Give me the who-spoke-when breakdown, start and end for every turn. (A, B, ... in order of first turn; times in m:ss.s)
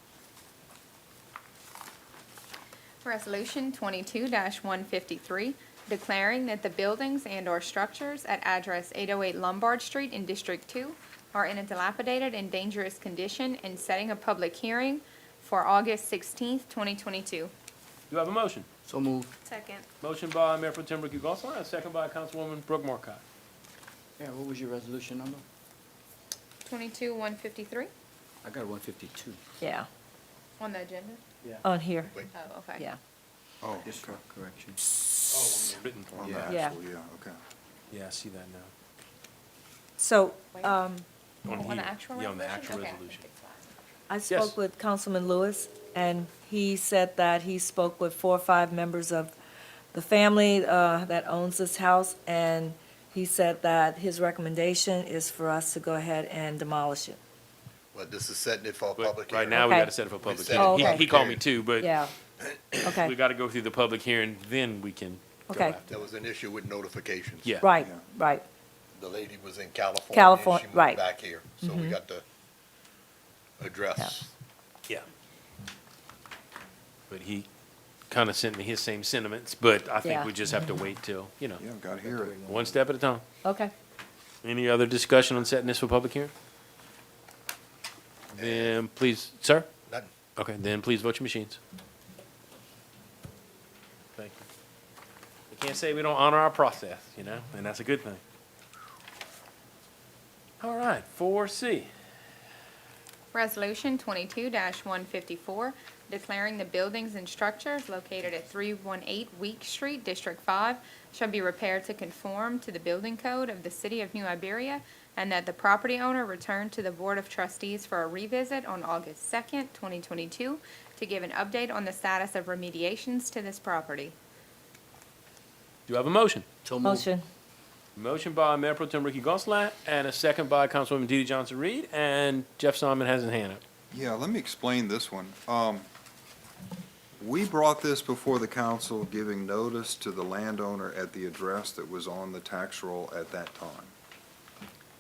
0:03.0-0:17.5 A
0:18.1-0:18.7 B
0:18.9-0:19.3 C
0:19.5-0:19.8 A
0:20.0-0:23.2 B
0:24.2-0:25.4 C
0:26.7-0:27.9 A
0:28.4-0:29.4 C
0:29.6-0:29.9 D
0:30.6-0:31.2 A
0:31.6-0:32.2 D
0:32.3-0:32.9 A
0:33.6-0:34.2 E
0:33.8-0:34.8 C
0:35.3-0:36.4 B
0:36.1-0:37.4 E
0:36.2-0:36.5 F
0:36.5-0:36.8 D
0:37.9-0:38.7 B
0:40.0-0:41.0 D
0:40.5-0:40.8 A
0:41.4-0:43.7 A
0:41.5-0:43.2 B
0:44.1-0:49.3 D
0:44.3-0:44.6 B
0:49.9-0:57.2 D
0:57.9-0:59.6 F
0:59.0-1:01.9 B
0:59.5-0:59.9 D
1:00.2-1:01.4 F
1:00.5-1:01.0 D
1:01.8-1:02.1 D
1:02.4-1:02.9 F
1:02.8-1:03.2 D
1:02.9-1:06.0 B
1:05.5-1:05.8 D
1:05.9-1:07.5 F
1:07.6-1:08.4 D
1:07.8-1:08.0 E
1:08.9-1:12.2 F
1:10.1-1:11.0 D
1:11.6-1:12.0 D
1:13.6-1:14.3 F
1:17.1-1:17.5 B
1:18.1-1:21.6 B
1:20.0-1:20.8 D
1:21.6-1:22.4 E
1:22.0-1:22.8 C
1:22.5-1:23.2 B
1:23.4-1:23.7 D
1:24.4-1:26.3 B
1:28.4-1:28.8 F
1:28.4-1:29.7 B
1:30.4-1:31.6 B
1:34.2-1:34.5 B
1:35.5-1:38.2 B
1:40.6-1:41.9 B
1:43.3-2:04.2 A
2:05.9-2:06.5 B
2:06.6-2:07.1 C
2:06.8-2:07.2 D
2:08.0-2:13.6 B
2:13.9-2:15.9 E
2:17.2-2:23.9 E